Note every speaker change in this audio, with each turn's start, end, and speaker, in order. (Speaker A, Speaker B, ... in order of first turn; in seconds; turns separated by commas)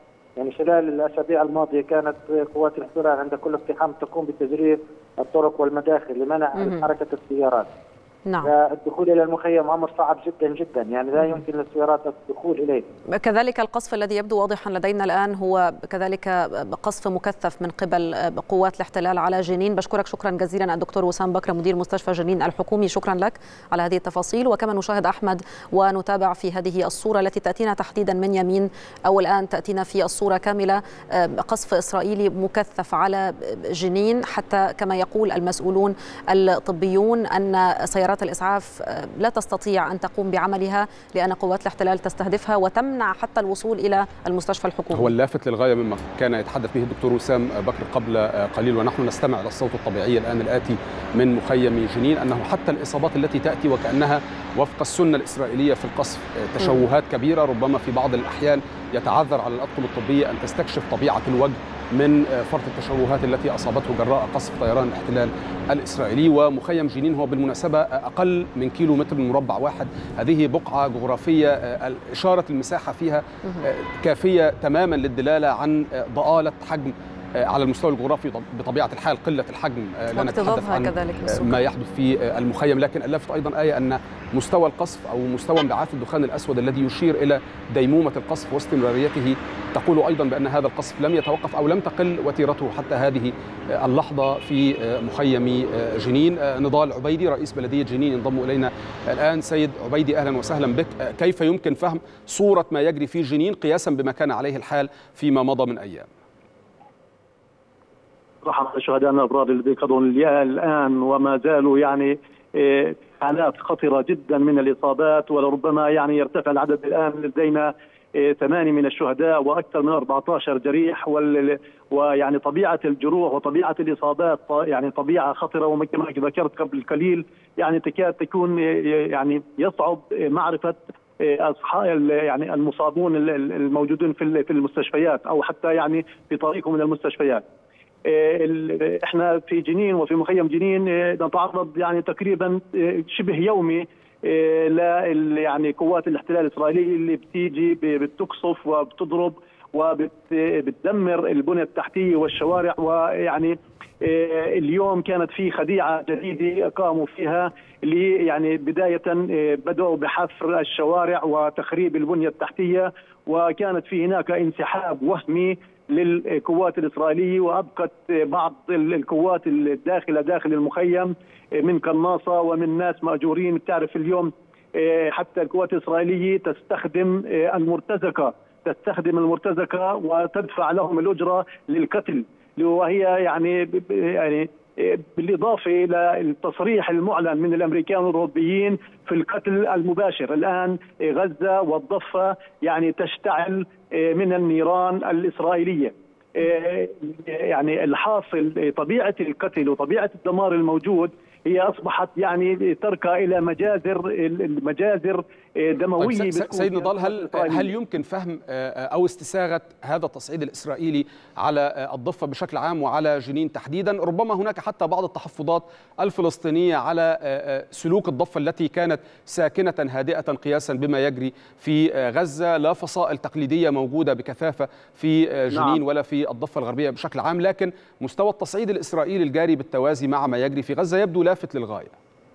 Speaker A: 0.4-7.7, Speaker B: 6.5-6.8, Speaker A: 8.4-12.8, Speaker B: 13.1-45.1, Speaker C: 44.9-106.1, Speaker B: 80.1-81.6, Speaker D: 108.4-137.4, Speaker D: 138.1-207.7, Speaker C: 206.0-231.9, Speaker D: 225.5-225.8